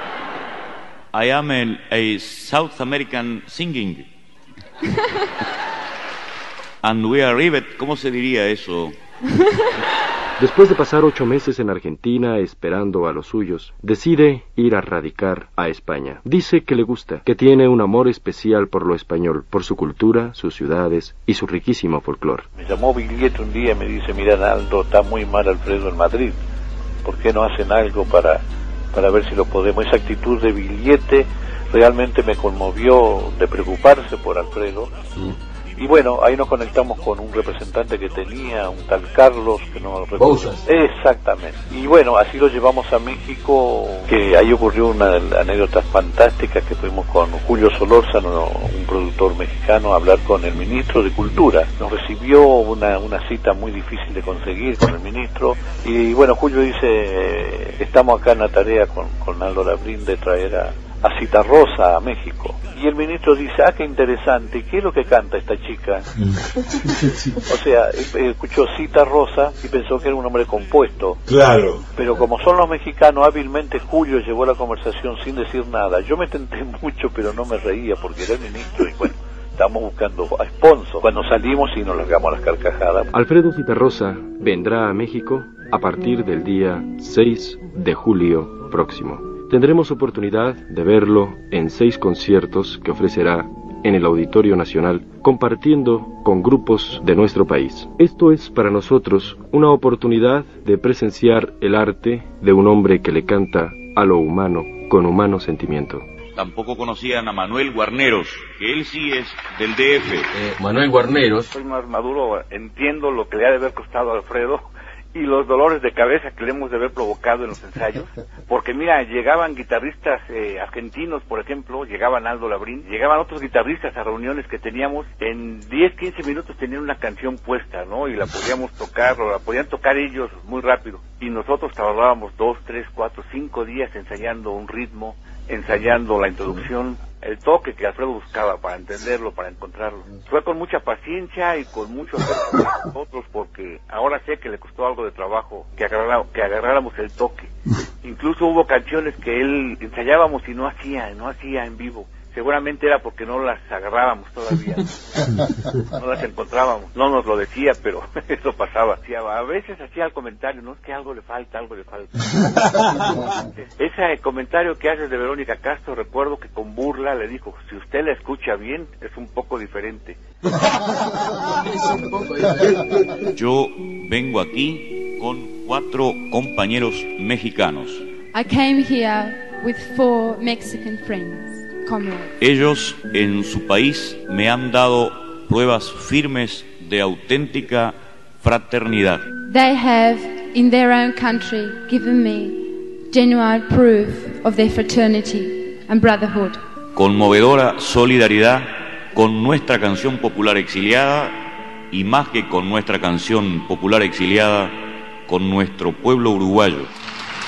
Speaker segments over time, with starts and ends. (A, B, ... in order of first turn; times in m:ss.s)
0:01.1-0:04.0 A
0:06.8-0:09.0 A
0:10.4-0:22.5 B
0:22.6-0:26.4 C
0:27.0-0:35.0 C
0:35.8-1:06.1 C
1:07.4-1:11.2 C
1:11.9-1:23.1 C
1:23.1-1:46.1 B
1:46.4-1:50.2 A
1:51.5-2:27.5 D
2:28.0-2:34.9 D
2:36.0-2:50.2 D
2:53.3-2:58.0 A
2:58.3-3:02.3 E
3:02.4-3:09.2 A
3:09.5-3:16.6 E
3:17.0-3:21.4 A
3:21.9-3:24.7 A
3:25.3-3:26.9 A